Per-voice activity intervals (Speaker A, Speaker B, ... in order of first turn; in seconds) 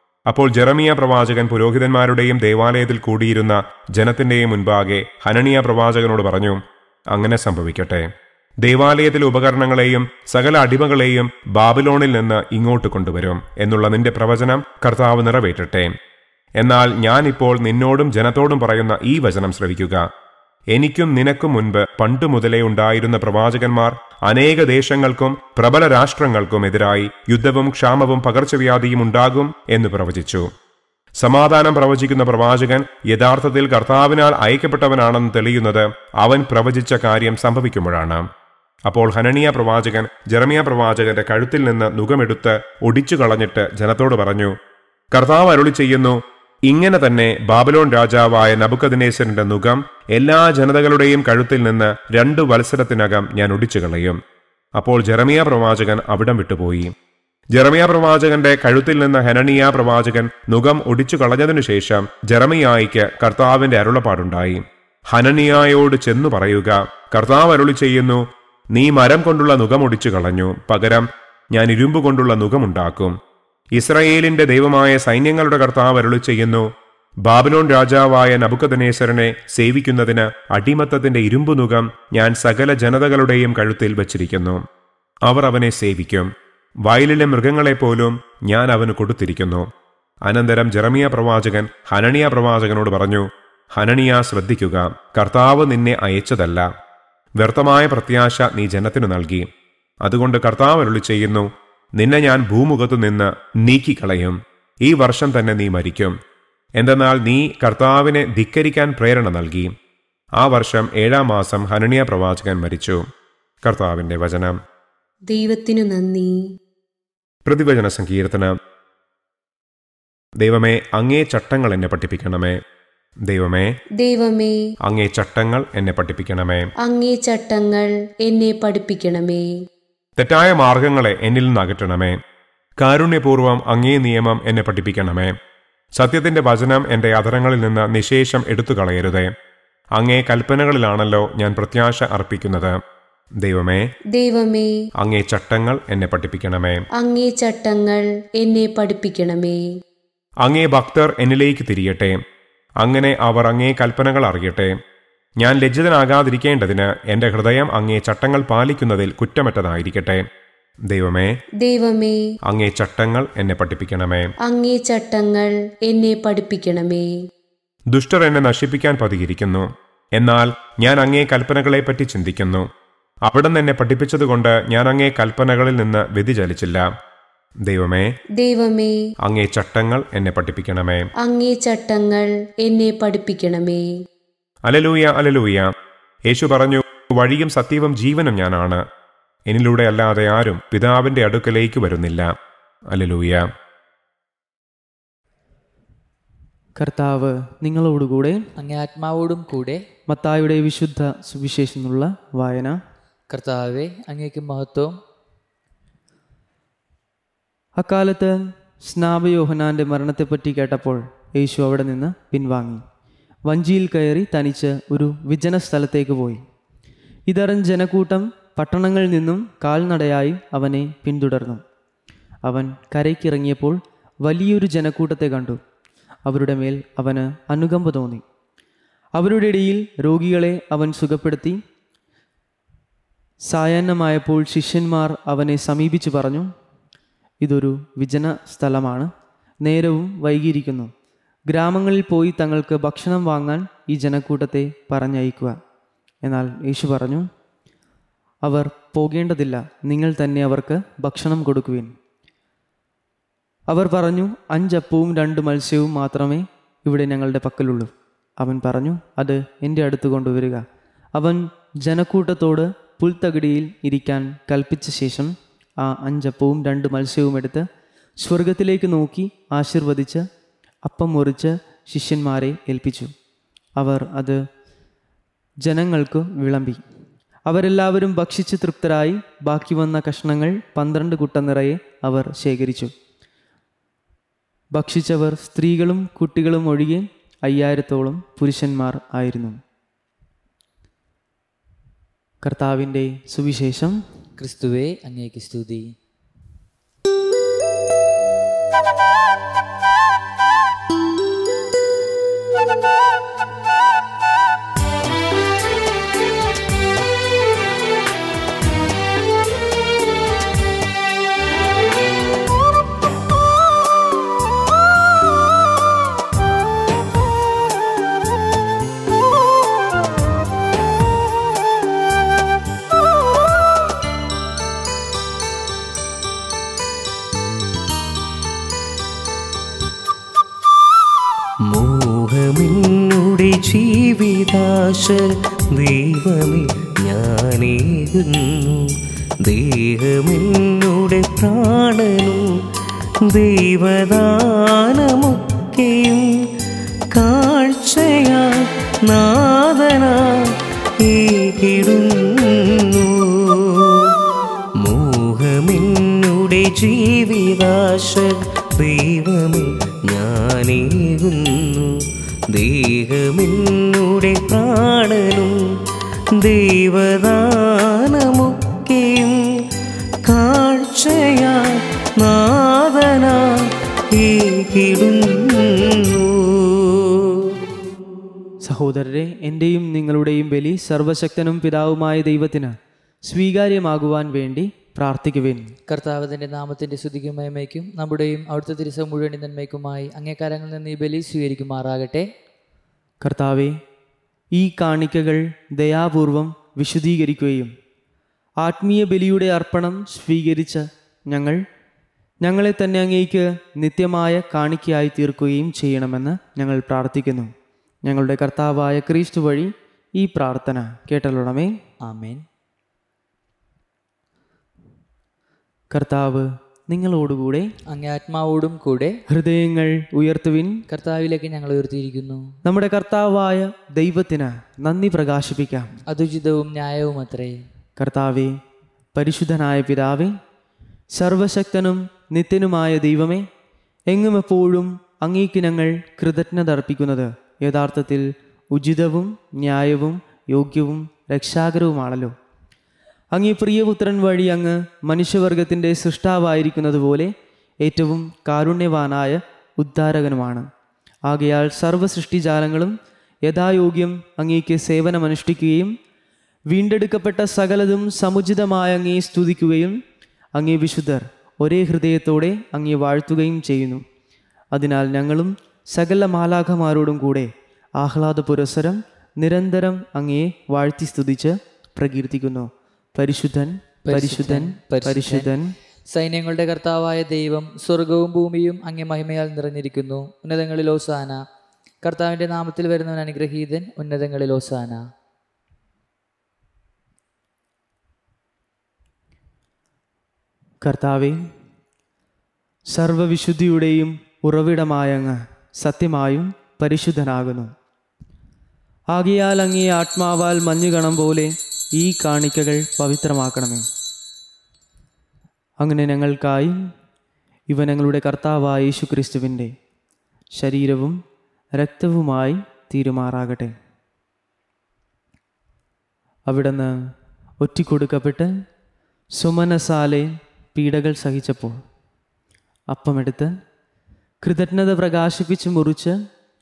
Speaker A: 0.3-6.6, 7.1-8.1, 8.6-15.9, 16.6-20.1, 20.7-30.5, 31.2-38.3, 38.9-44.5, 45.1-46.2, 46.7-54.2, 54.8-56.9, 57.5-73.2, 73.8-76.7, 77.2-84.6, 85.3-86.3, 86.8-89.7, 90.3-96.7, 97.4-99.5, 100.0-106.2, 106.8-109.7, 110.4-113.0, 113.7-114.6, 117.5-118.6, 120.4-122.6, 123.2-123.7, 124.8-126.7, 130.2-132.2, 132.8-135.3, 136.0-139.3, 140.0-142.8, 143.4-143.8, 145.0-146.8, 150.4-152.2, 152.8-154.8, 155.4-160.3, 160.9-161.3, 162.5-164.3, 167.9-172.7, 173.3-176.9, 177.6-178.1, 179.2-181.1, 184.7-185.7, 186.3-188.8, 189.5-192.3, 192.9-193.5
Speaker B: 115.3-116.4, 124.0-124.6, 126.8-129.5, 144.2-144.7, 147.0-149.6, 161.6-162.2, 164.5-167.1, 178.4-179.0, 181.2-183.9
Speaker C: 196.8-198.4, 200.1-202.8, 207.8-212.8, 213.5-216.4, 217.3-221.6, 222.4-225.6, 226.3-228.2, 229.2-231.6, 233.5-236.5, 237.4-239.1, 239.6-240.9, 241.5-245.6, 246.2-247.3, 248.4-251.9, 253.7-267.7, 268.2-270.3, 270.8-273.1, 273.8-274.4, 275.6-276.8, 277.5-282.9, 284.8-289.6, 292.4-294.0, 378.6-385.7, 393.2-393.8, 394.5-397.7, 398.6-401.6, 402.4-407.5, 408.1-411.7, 415.9-417.7, 419.3-420.8, 422.6-425.9, 428.0-428.6, 429.1-430.4, 431.1-433.5, 434.1-442.4, 443.3-447.3, 447.8-450.7, 451.3-452.9, 453.5-455.9, 456.7-460.0, 460.6-464.1, 464.7-475.7, 490.8-491.4, 492.9-497.7, 499.1-503.9, 505.8-506.8, 507.7-509.8, 510.6-511.2, 511.8-513.8, 516.5-517.0, 517.6-518.5, 519.4-521.8, 522.9-523.5, 524.4-526.2
Speaker D: 198.6-199.8, 203.3-205.0, 294.4-295.9, 385.9-392.3, 412.1-412.4, 417.9-419.2, 420.9-422.5, 426.1-427.6, 474.1-475.5, 476.1-481.4, 482.0-485.0
Speaker E: 331.7-342.5, 343.3-346.3, 347.1-354.1, 354.8-362.0, 362.5-365.6, 366.4-369.4, 370.2-377.6